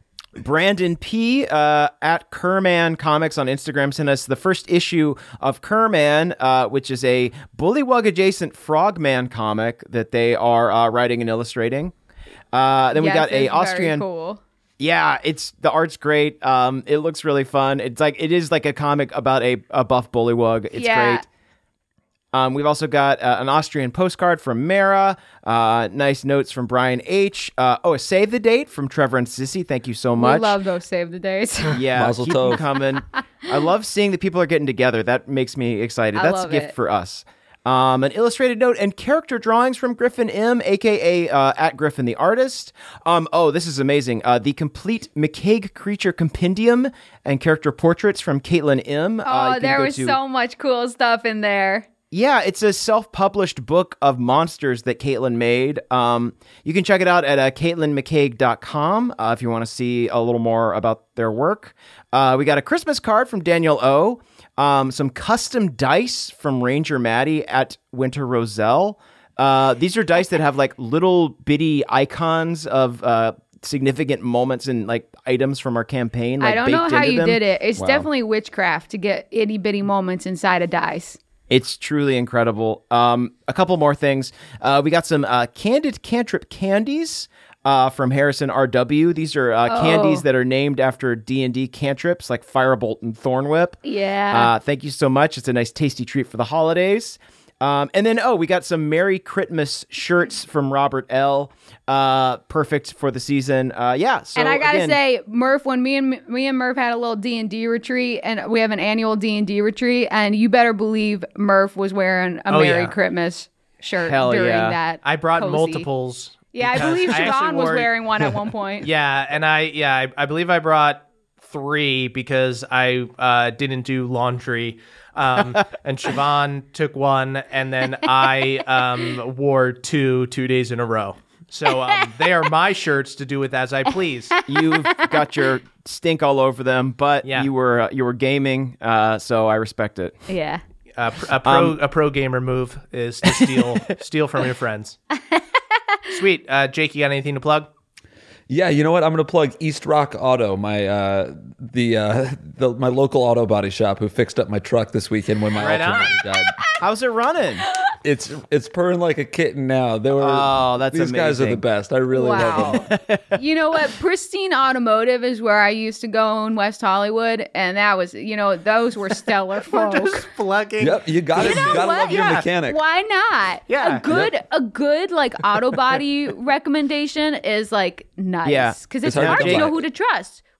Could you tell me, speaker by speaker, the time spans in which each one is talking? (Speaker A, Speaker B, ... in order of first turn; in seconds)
Speaker A: 0.4-11.9, 12.5-14.0, 14.8-21.2, 22.3-30.6, 31.7-50.2, 52.1-78.0, 81.5-105.0, 114.1-114.8, 134.5-140.2, 141.4-141.8, 143.3-143.7, 156.8-157.7, 160.2-161.6, 162.4-163.4, 178.4-179.8
Speaker B: 12.9-14.4, 20.7-21.2, 30.2-31.8, 36.1-36.7, 49.2-51.9, 76.4-81.2, 89.7-90.2, 93.8-94.5, 104.4-115.9, 116.5-118.9, 131.7-132.1, 134.3-135.1, 140.3-140.6, 162.1-170.3, 171.4-180.4
Speaker C: 31.9-32.6, 148.5-156.6, 158.0-162.9, 170.8-172.8, 174.1-174.3, 179.0-179.8
Speaker D: 112.5-112.9, 115.0-117.9, 118.8-134.3, 137.2-137.5, 141.0-145.0, 146.1-147.7, 155.6-156.1, 169.7-172.5, 173.7-174.0